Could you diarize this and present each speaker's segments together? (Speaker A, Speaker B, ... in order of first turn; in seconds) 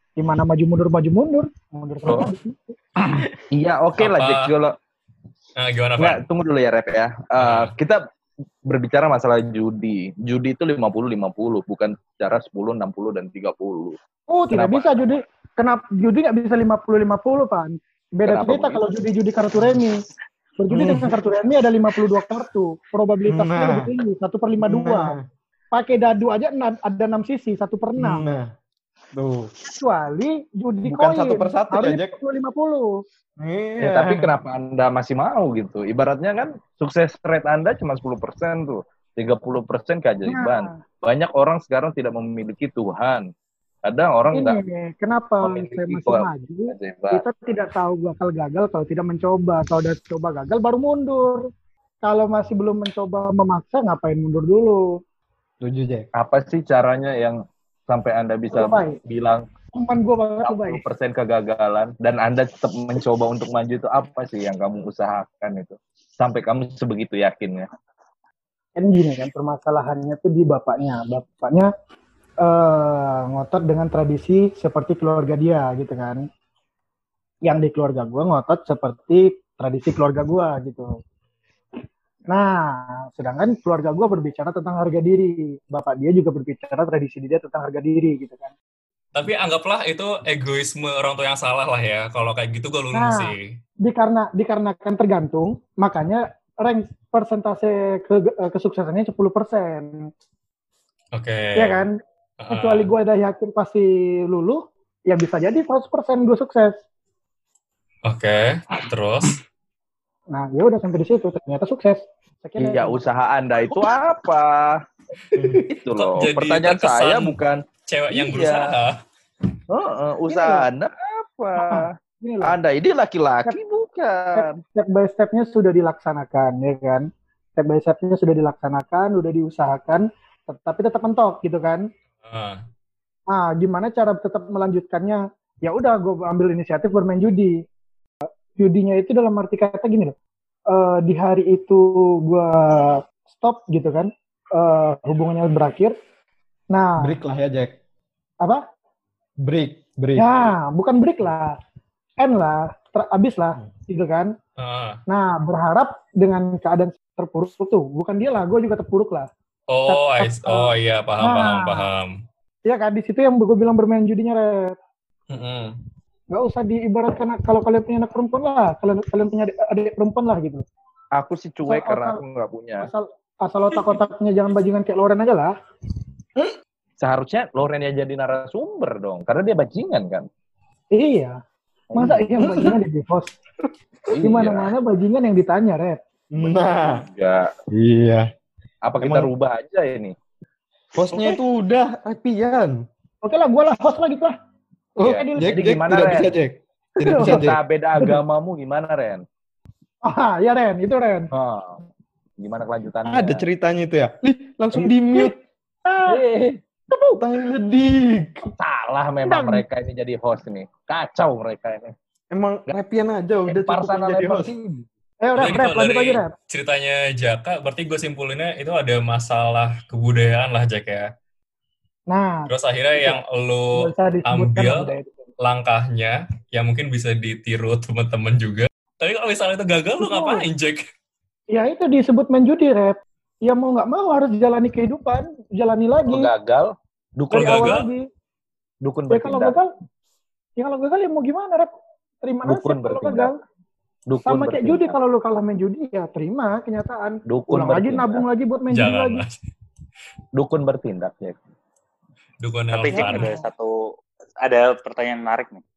Speaker A: 0.2-2.8, 14.3-20.0, 20.6-25.1, 25.7-28.2, 29.7-32.9, 40.2-40.8, 44.3-51.4, 52.0-55.0, 58.5-59.0, 59.7-60.8, 68.8-71.7, 72.4-76.2, 77.4-80.9, 82.3-88.5, 92.9-100.1, 101.5-101.9, 102.5-106.8, 110.3-113.0, 120.3-120.7, 121.5-122.6, 124.3-131.8, 133.3-137.6, 138.6-140.1, 140.7-145.9, 146.7-147.1, 150.2-151.5, 152.2-154.3, 155.1-159.3, 159.9-160.7, 161.2-161.9, 162.7-164.7, 166.3-170.6, 171.7-172.2, 172.8-175.5, 180.9-181.4, 181.9-183.4, 184.2-186.0, 193.2-194.3, 195.0-195.7, 197.0-197.4, 200.0-201.3, 209.2-209.6, 215.2-216.3, 222.1-223.2, 223.7-225.2, 230.0-230.4, 231.5-236.3, 237.3-238.1, 239.1-239.7, 240.6-241.7, 242.2-243.4, 244.2-249.2, 252.9-253.5
Speaker B: 2.0-2.3, 3.0-4.7, 6.0-8.0, 8.7-14.0, 14.6-15.0, 18.2-18.8, 33.8-43.3, 43.9-44.6, 45.4-47.2, 56.1-59.5, 60.4-67.7, 112.6-114.8, 115.5-118.7, 119.7-121.9, 122.4-124.6, 171.1-172.9, 177.0-180.3, 181.9-182.3, 184.1-184.7, 186.4-187.5, 188.8-190.1, 195.0-196.3, 197.2-199.2, 201.3-201.8, 202.4-203.4, 204.8-205.3, 206.0-206.6, 208.4-211.9, 213.5-214.9, 236.1-237.7, 238.8-239.6, 242.4-243.3, 244.1-244.9, 247.2-248.2, 250.3-251.4
Speaker C: 4.0-4.5, 5.6-6.2, 7.4-7.7, 89.1-93.5, 101.1-101.9, 102.4-102.9, 108.0-109.4, 116.0-117.4, 117.9-119.0, 132.2-132.6, 154.6-155.0, 159.7-162.1, 165.3-165.8, 215.4-221.1, 222.5-230.9, 237.3-237.9, 248.7-249.3, 252.4-253.3
Speaker D: 20.7-21.2, 23.2-23.9, 24.6-25.2, 28.0-28.5, 29.1-29.5, 30.9-32.1, 33.4-34.3, 55.6-56.1, 115.3-115.6, 147.0-147.8, 149.4-150.3, 186.3-187.0, 187.7-188.3, 189.0-189.3, 190.9-192.8, 195.0-198.1, 203.1-205.4, 206.9-208.4, 212.3-214.5
Speaker E: 252.7-255.6